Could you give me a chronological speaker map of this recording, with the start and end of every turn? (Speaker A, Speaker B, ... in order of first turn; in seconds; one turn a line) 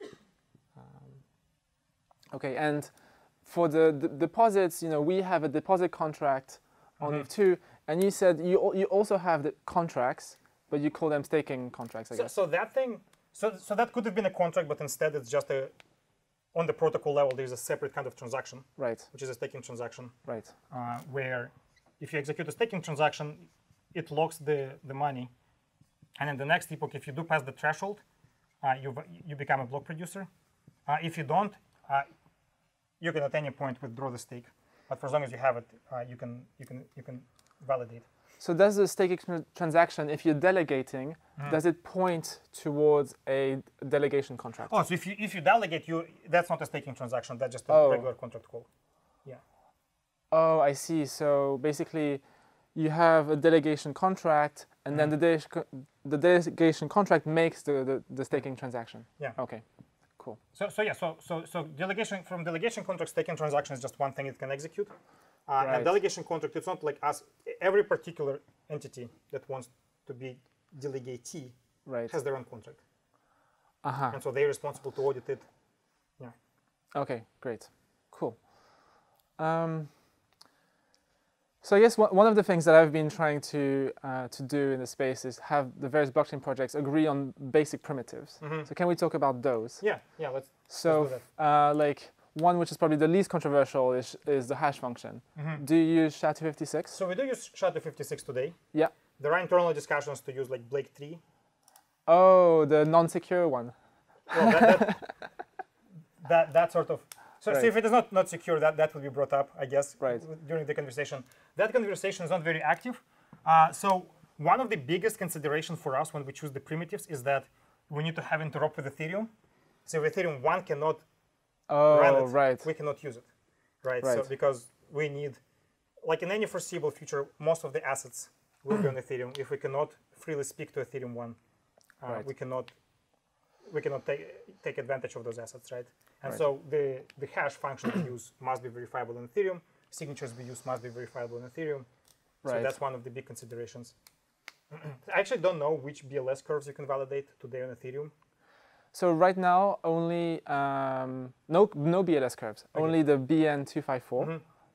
Speaker A: 2.3-12.3
Speaker B: 7.0-7.3
Speaker B: 12.1-15.7
Speaker B: 16.5-20.1
Speaker A: 18.8-19.1
Speaker A: 20.2-20.5
Speaker B: 20.7-25.3
Speaker B: 26.2-28.0
Speaker B: 28.6-30.3
Speaker B: 30.9-32.1
Speaker B: 33.0-38.1
Speaker A: 38.4-44.7
Speaker B: 44.7-48.7
Speaker A: 47.7-48.1
Speaker A: 50.3-52.2
Speaker A: 52.7-59.6
Speaker B: 60.5-64.9
Speaker B: 65.5-71.6
Speaker A: 65.6-65.9
Speaker A: 71.8-72.1
Speaker B: 72.1-72.8
Speaker A: 73.8-74.2
Speaker B: 74.1-75.5
Speaker A: 76.9-79.9
Speaker A: 81.6-89.8
Speaker B: 88.4-88.7
Speaker B: 89.8-91.2
Speaker A: 90.7-97.0
Speaker B: 95.4-95.6
Speaker B: 96.9-98.6
Speaker B: 99.2-101.2
Speaker A: 102.1-103.7
Speaker B: 104.3-105.0
Speaker A: 104.4-105.1
Speaker B: 106.2-119.3
Speaker B: 119.9-121.0
Speaker A: 121.7-122.7
Speaker B: 121.9-123.3
Speaker B: 123.8-125.4
Speaker A: 124.0-124.3
Speaker B: 126.0-131.4
Speaker B: 132.0-132.7
Speaker B: 133.7-141.9
Speaker A: 142.4-142.7
Speaker B: 142.4-143.9
Speaker B: 144.7-148.1
Speaker A: 148.9-154.3